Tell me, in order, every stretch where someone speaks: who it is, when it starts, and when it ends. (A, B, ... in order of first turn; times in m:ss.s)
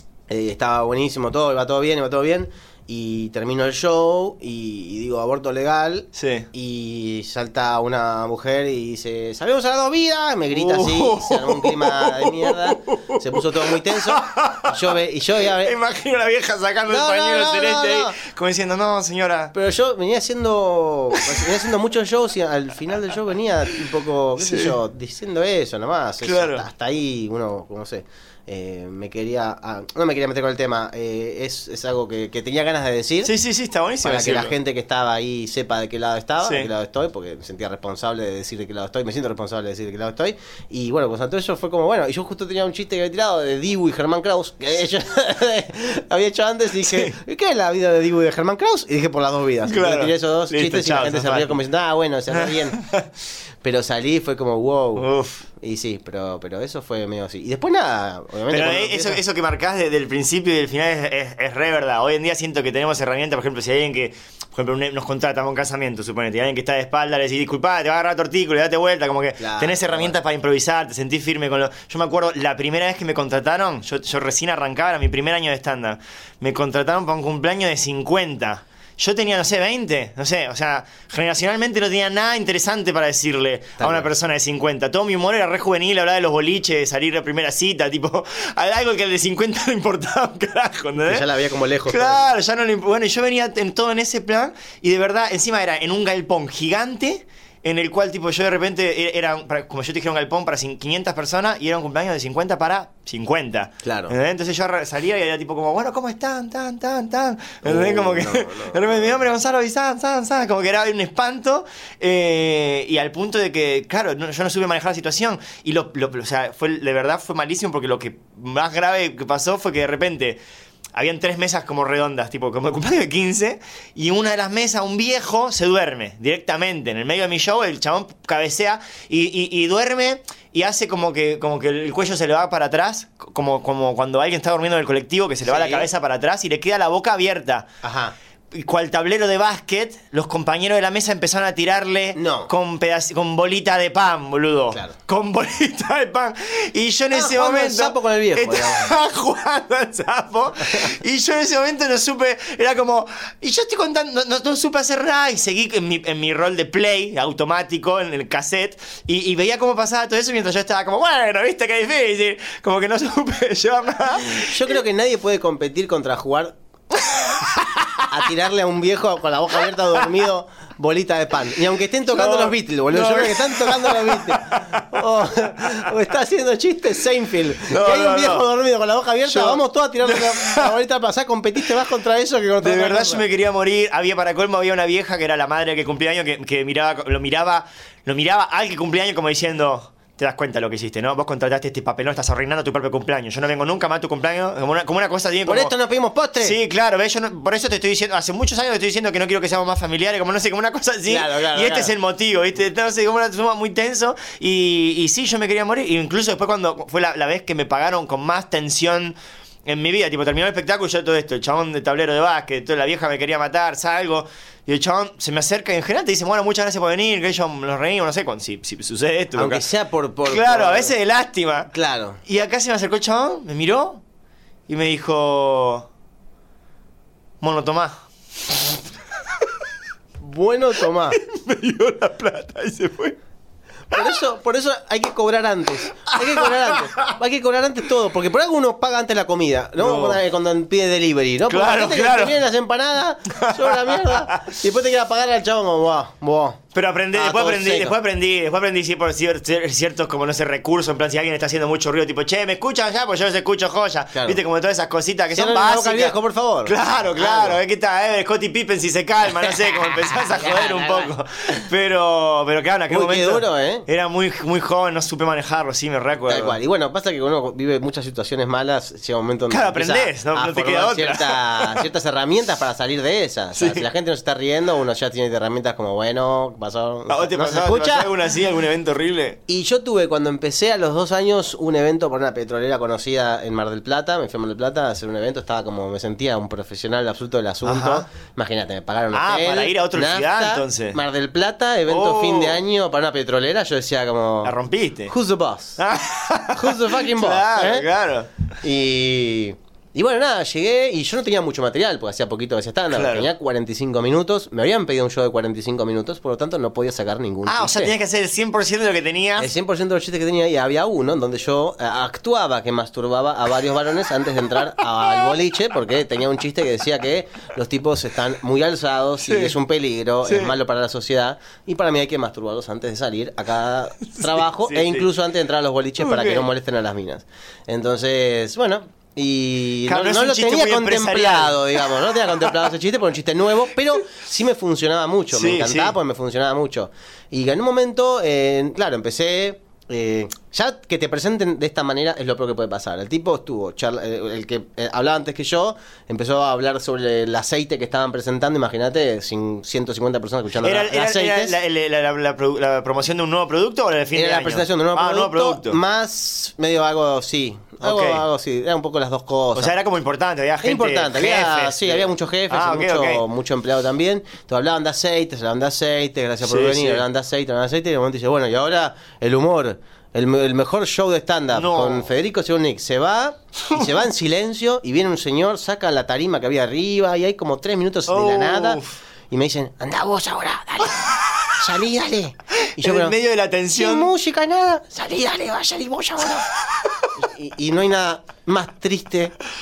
0:00.3-0:15.7 A
0:06.1-0:06.4 B
0:10.5-0:13.2 B
0:13.7-0:14.7 B
0:15.4-0:19.5 B
0:16.9-0:18.2 A
0:19.5-0:33.3 A
0:24.4-0:24.7 B
0:26.2-0:26.6 B
0:33.2-0:34.5 B
0:34.0-0:52.8 A
0:36.4-0:36.7 B
0:46.8-0:47.2 B
0:49.6-0:51.6 B
0:52.6-0:53.0 B
0:53.6-0:55.1 A
0:55.0-0:55.4 B
0:55.6-0:59.2 A
0:58.5-1:31.2 B
1:09.4-1:10.2 A
1:23.8-1:24.1 A
1:31.0-1:32.3 A
1:31.9-2:00.4 B
1:43.8-1:44.1 A
1:47.6-1:49.3 A
2:00.9-2:17.7 B
2:15.4-2:15.9 A
2:17.8-2:18.1 A
2:18.5-2:44.7 B
2:22.1-2:22.5 A
2:27.1-2:28.9 A
2:44.3-2:46.5 A
2:46.9-2:48.0 B
2:48.1-3:03.2 A
2:52.1-2:54.9 B
2:57.7-2:58.4 B
2:59.2-3:00.7 B
3:02.6-3:15.7 B
3:15.4-3:16.6 A
3:16.4-3:39.6 B
3:21.1-3:21.9 A
3:39.3-3:41.0 A
3:40.2-3:41.7 B
3:41.7-3:42.2 A
3:42.2-3:44.0 B
3:44.7-3:45.9 B
3:47.4-3:48.0 B
3:50.2-3:51.2 A
3:51.1-3:53.1 B
3:53.9-4:06.6 A
3:53.9-3:54.2 B
3:56.1-3:57.0 B
3:59.8-4:00.2 B
4:01.5-4:02.4 B
4:03.3-4:04.5 B
4:06.7-4:26.6 B
4:07.1-4:08.0 A
4:14.1-4:14.4 A
4:15.3-4:17.6 A
4:19.5-4:21.1 A
4:22.9-4:23.8 A
4:26.3-4:38.1 A
4:29.5-4:31.9 B
4:33.6-4:33.8 B
4:37.1-4:39.4 B
4:39.5-4:54.5 A
4:47.6-4:48.0 B
4:49.1-4:51.0 B
4:51.9-4:52.6 B
4:54.4-4:55.1 B
4:55.1-4:55.8 A
4:55.8-4:58.3 B
4:56.5-4:57.8 A
4:58.6-5:07.9 A
5:02.9-5:03.3 B
5:07.4-5:09.5 B
5:09.4-5:51.5 A
5:19.2-5:19.5 B
5:20.2-5:20.5 B
5:24.0-5:25.1 B
5:26.0-5:26.5 B
5:29.8-5:31.6 B
5:35.3-5:36.0 B
5:50.6-5:55.8 B
5:54.1-5:59.7 A
5:57.8-5:58.2 B
5:59.5-6:03.2 B
6:00.6-6:21.0 A
6:06.4-6:07.0 B
6:11.5-6:12.0 B
6:18.1-6:19.0 B
6:21.0-6:21.4 B
6:21.6-6:23.1 A
6:22.6-6:24.1 B
6:23.7-6:26.4 A
6:26.2-6:27.1 B
6:27.2-6:29.3 A